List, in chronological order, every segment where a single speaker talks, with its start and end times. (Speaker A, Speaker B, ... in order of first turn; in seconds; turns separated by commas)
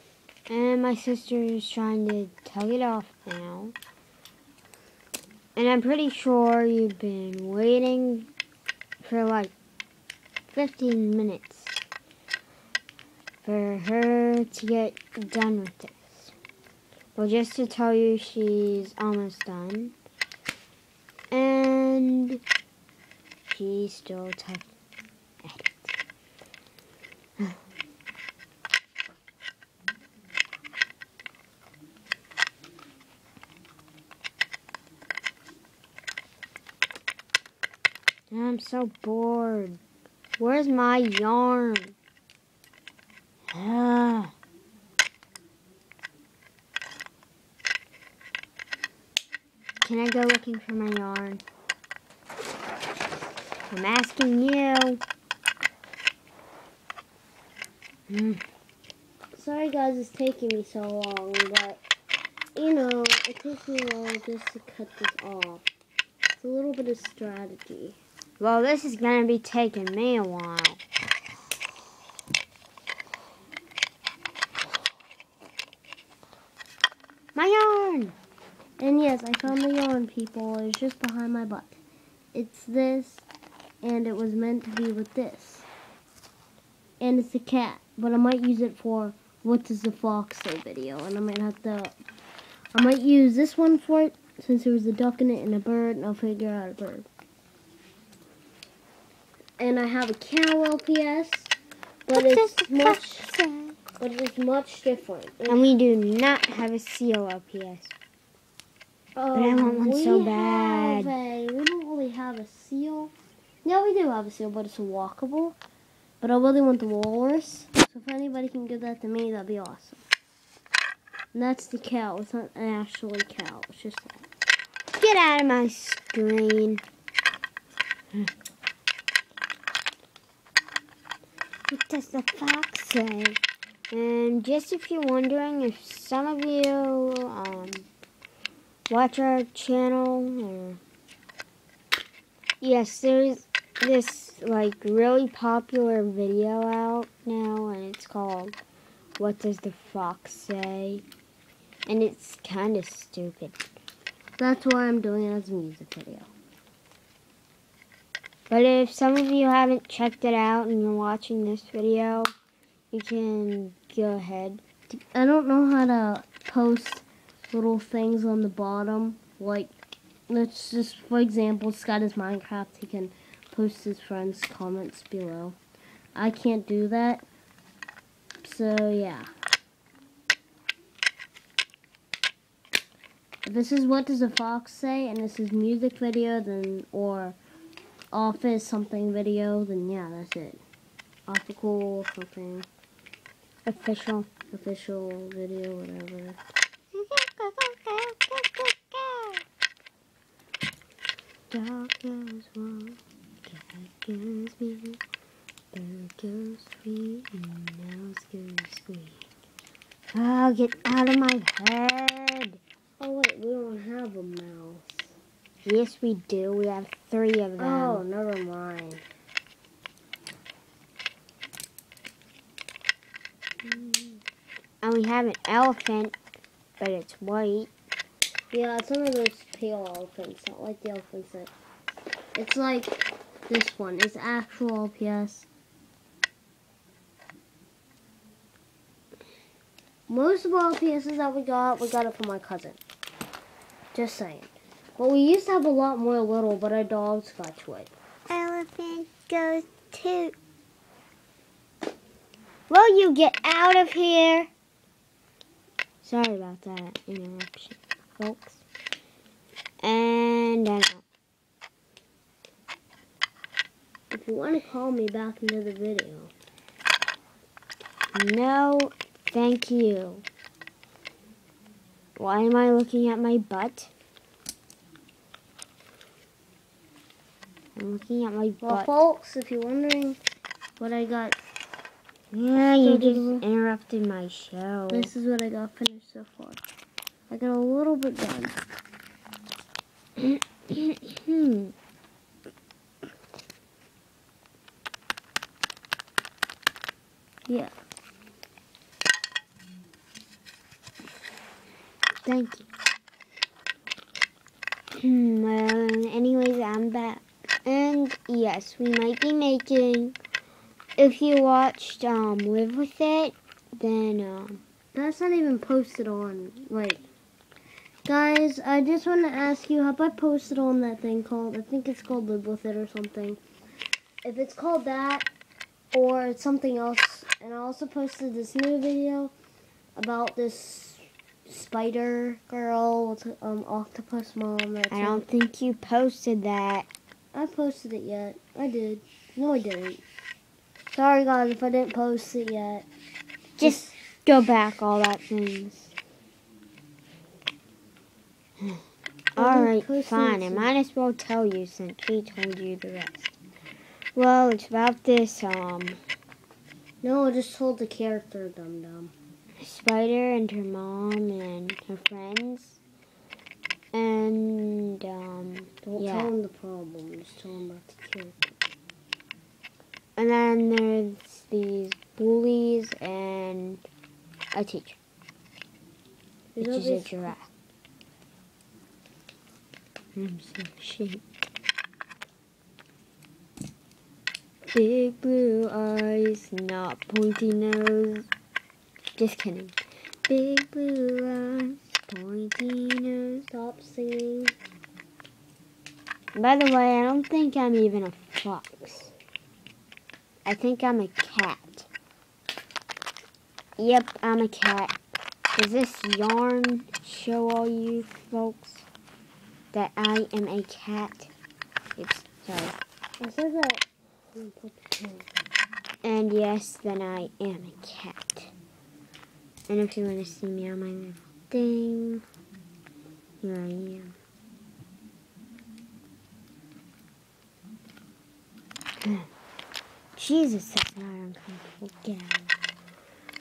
Speaker A: 0.5-3.7, Speaker A: 5.5-8.3, Speaker A: 9.0-9.5, Speaker A: 10.5-11.8, Speaker A: 13.4-16.3, Speaker A: 17.1-19.9, Speaker A: 21.3-22.4, Speaker A: 23.5-24.7, Speaker A: 25.4-25.9, Speaker A: 38.3-39.8, Speaker A: 40.4-41.9, Speaker A: 43.5-44.3, Speaker A: 49.8-51.4, Speaker A: 53.7-55.0, Speaker A: 58.1-58.4, Speaker B: 59.3-61.8, Speaker B: 62.5-65.6, Speaker B: 66.4-68.0, Speaker A: 68.4-70.8, Speaker A: 77.3-78.1, Speaker B: 78.8-81.8, Speaker B: 82.3-83.2, Speaker B: 83.8-85.7, Speaker B: 87.0-91.9, Speaker B: 92.7-97.1, Speaker B: 99.6-101.5, Speaker B: 102.1-103.3, Speaker A: 102.1-103.8, Speaker B: 104.0-105.6, Speaker A: 105.5-107.9, Speaker B: 109.2-113.1, Speaker A: 109.3-111.1, Speaker B: 113.6-115.5, Speaker B: 116.2-120.0, Speaker B: 121.3-124.2, Speaker A: 125.0-126.8, Speaker A: 131.7-133.4, Speaker A: 133.9-137.9, Speaker A: 138.9-140.8, Speaker A: 142.6-148.6, Speaker A: 149.2-151.0, Speaker A: 151.8-153.6, Speaker B: 154.4-156.3, Speaker A: 158.5-162.3, Speaker A: 162.9-164.6, Speaker B: 165.1-169.7, Speaker B: 170.3-175.6, Speaker B: 176.1-177.2, Speaker B: 178.4-179.3, Speaker B: 183.4-187.4, Speaker B: 188.1-190.6, Speaker B: 191.3-192.7, Speaker A: 193.7-194.3, Speaker B: 194.5-196.4, Speaker A: 196.9-199.4, Speaker A: 201.5-205.0, Speaker A: 205.7-209.2, Speaker A: 210.1-212.6, Speaker B: 213.0-215.1, Speaker A: 215.6-218.0, Speaker B: 217.6-219.0, Speaker B: 223.7-224.0, Speaker A: 224.8-226.1, Speaker A: 226.8-227.7, Speaker B: 228.5-231.5, Speaker B: 232.3-235.5, Speaker B: 240.1-242.8, Speaker B: 243.9-247.9, Speaker A: 248.3-250.3, Speaker A: 252.7-254.5, Speaker A: 256.0-258.6, Speaker A: 259.8-261.0, Speaker B: 264.1-266.3, Speaker A: 268.1-270.2, Speaker A: 272.1-273.9, Speaker A: 277.8-278.9, Speaker B: 278.6-280.2, Speaker B: 280.8-281.4, Speaker A: 282.3-285.1, Speaker B: 282.8-283.4, Speaker B: 284.9-286.6, Speaker B: 287.3-288.6, Speaker A: 290.2-291.7, Speaker B: 297.5-297.7, Speaker A: 302.2-302.7, Speaker A: 305.0-310.2, Speaker A: 311.0-314.6, Speaker B: 314.9-317.0, Speaker B: 318.1-323.4, Speaker B: 324.2-325.3, Speaker B: 325.9-329.3, Speaker B: 329.9-335.2, Speaker A: 334.9-336.9, Speaker B: 337.3-340.0, Speaker B: 340.9-342.9, Speaker A: 343.6-345.9, Speaker B: 343.6-343.9, Speaker A: 349.3-353.3, Speaker B: 349.4-350.7, Speaker A: 354.1-356.0, Speaker B: 357.0-359.1, Speaker A: 359.6-362.8, Speaker A: 363.9-366.3, Speaker B: 365.8-368.5, Speaker A: 370.1-373.8, Speaker A: 374.5-375.0, Speaker B: 376.5-377.3, Speaker A: 376.6-377.5, Speaker A: 380.1-381.2, Speaker A: 384.7-388.3, Speaker A: 389.2-389.8, Speaker A: 390.3-393.5, Speaker B: 393.5-394.5, Speaker A: 396.3-399.1, Speaker A: 400.4-401.9, Speaker A: 403.8-404.9, Speaker A: 405.5-408.8, Speaker A: 409.7-411.3, Speaker A: 412.0-412.8, Speaker B: 413.2-415.3, Speaker A: 416.0-418.5, Speaker A: 419.7-422.2, Speaker A: 423.4-424.1, Speaker A: 430.1-432.5